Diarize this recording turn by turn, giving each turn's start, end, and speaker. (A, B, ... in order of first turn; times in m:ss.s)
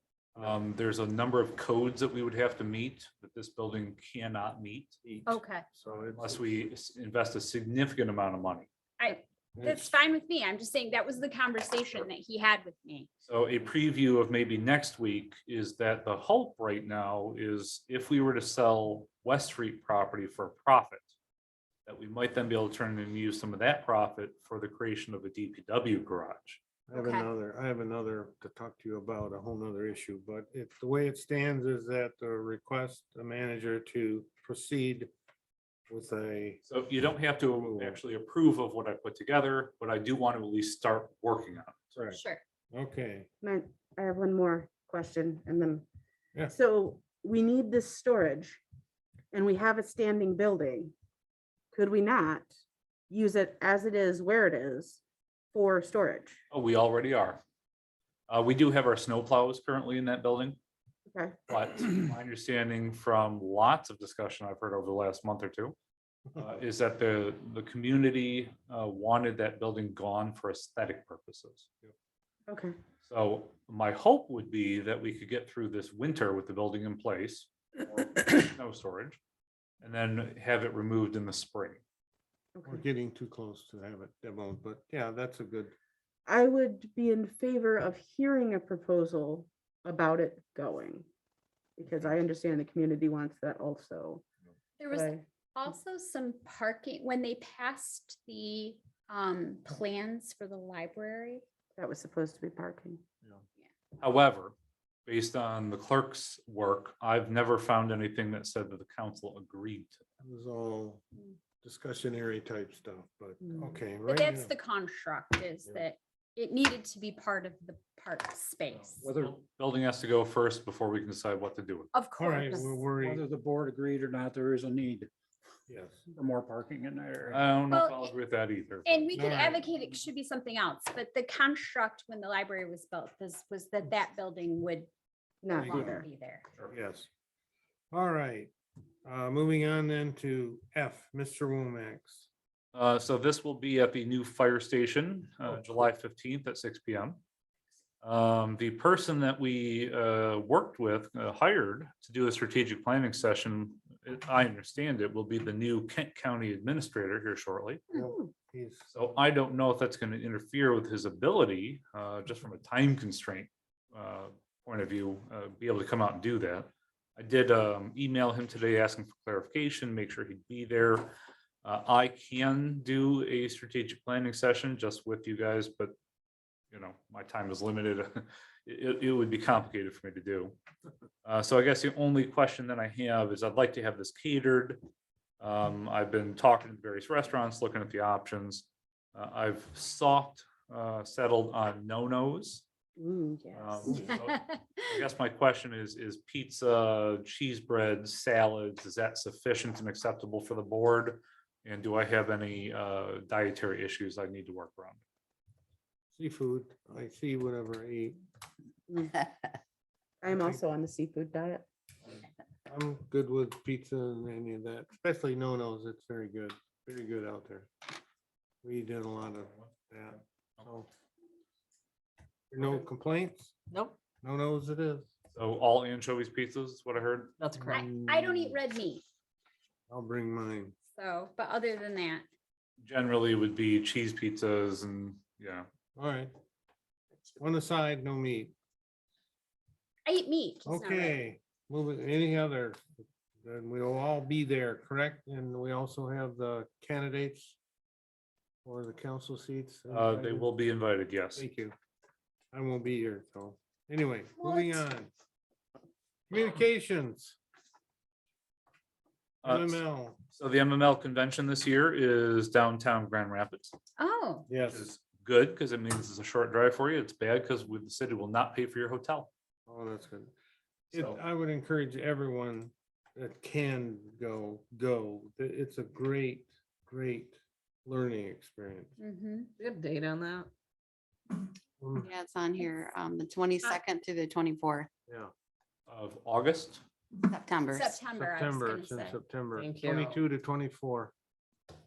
0:00.4-0:05.0 A
0:05.0-0:06.7 B
0:05.3-0:05.6 C
0:06.2-0:08.7 A
0:09.0-0:13.1 C
0:09.6-0:09.9 B
0:13.3-0:21.1 A
0:21.9-0:26.6 A
0:26.9-0:35.1 B
0:26.9-0:27.3 C
0:35.9-0:36.6 B
0:36.7-0:42.0 A
0:37.5-0:38.0 B
0:42.0-0:42.2 B
0:42.1-0:42.4 C
0:42.7-0:43.3 B
0:43.4-0:45.8 D
0:46.5-0:48.6 D
0:49.3-0:50.9 D
0:51.7-0:52.5 D
0:53.1-0:55.0 D
0:55.5-0:56.4 D
0:56.5-0:57.4 A
0:58.3-1:00.6 A
1:01.1-1:01.4 D
1:01.5-1:05.8 A
1:06.4-1:11.8 A
1:12.5-1:12.8 D
1:13.0-1:19.2 A
1:19.8-1:21.8 A
1:22.6-1:22.8 D
1:22.7-1:25.8 B
1:26.3-1:31.1 D
1:31.8-1:34.2 D
1:34.8-1:41.4 C
1:34.9-1:35.2 D
1:41.8-1:43.0 D
1:44.0-1:44.5 A
1:45.1-1:50.0 A
1:50.2-1:51.0 B
1:51.6-1:54.5 B
1:53.4-1:53.7 D
1:54.0-1:59.0 C
1:59.0-1:59.4 E
1:59.2-2:01.9 A
2:01.9-2:02.8 C
2:02.2-2:03.2 B
2:03.0-2:05.1 E
2:05.7-2:06.0 B
2:06.2-2:07.4 E
2:07.3-2:09.1 A
2:07.7-2:08.1 C
2:08.9-2:14.9 C
2:09.1-2:09.6 B
2:15.4-2:16.1 D
2:15.5-2:16.4 C
2:15.6-2:16.0 B
2:16.7-2:17.1 B
2:17.9-2:18.5 B
2:19.0-2:22.3 B
2:22.7-2:27.2 A
2:28.0-2:37.8 A
2:37.9-2:38.9 B
2:38.9-2:51.1 A
2:51.6-2:56.0 A
2:56.7-3:00.6 A
3:01.2-3:04.8 A
3:05.4-3:12.6 A
3:13.0-3:14.1 D
3:13.5-3:25.0 A
3:14.1-3:14.4 C
3:26.1-3:28.2 B
3:30.2-3:31.7 D
3:30.3-3:30.6 B
3:32.7-3:37.7 B
3:38.6-3:40.9 B
3:42.5-3:43.6 B
3:44.2-3:45.1 B
3:45.3-3:47.3 A
3:47.4-3:47.8 F
3:47.6-3:48.6 B
3:47.7-3:49.0 C
3:49.9-3:50.8 B
3:51.0-3:52.3 C
3:52.8-3:55.7 A
3:56.0-3:56.3 B
3:57.4-3:58.5 B
4:00.1-4:01.2 C
4:00.7-4:07.6 B
4:08.6-4:10.5 B
4:09.9-4:11.5 A
4:11.4-4:11.7 B
4:12.5-4:15.1 B
4:16.3-4:17.4 B
4:19.4-4:23.7 A
4:19.4-4:20.2 B
4:24.0-4:24.5 C
4:24.5-4:24.9 B
4:24.7-4:29.3 A
4:29.7-4:30.3 B
4:30.9-4:38.9 B
4:39.0-4:39.5 C
4:39.6-4:40.5 F
4:41.8-4:42.1 B
4:42.0-4:44.9 G
4:45.9-4:46.8 A
4:47.3-4:47.9 G
4:47.7-4:49.2 C
4:48.1-4:51.1 B
4:49.6-4:50.2 F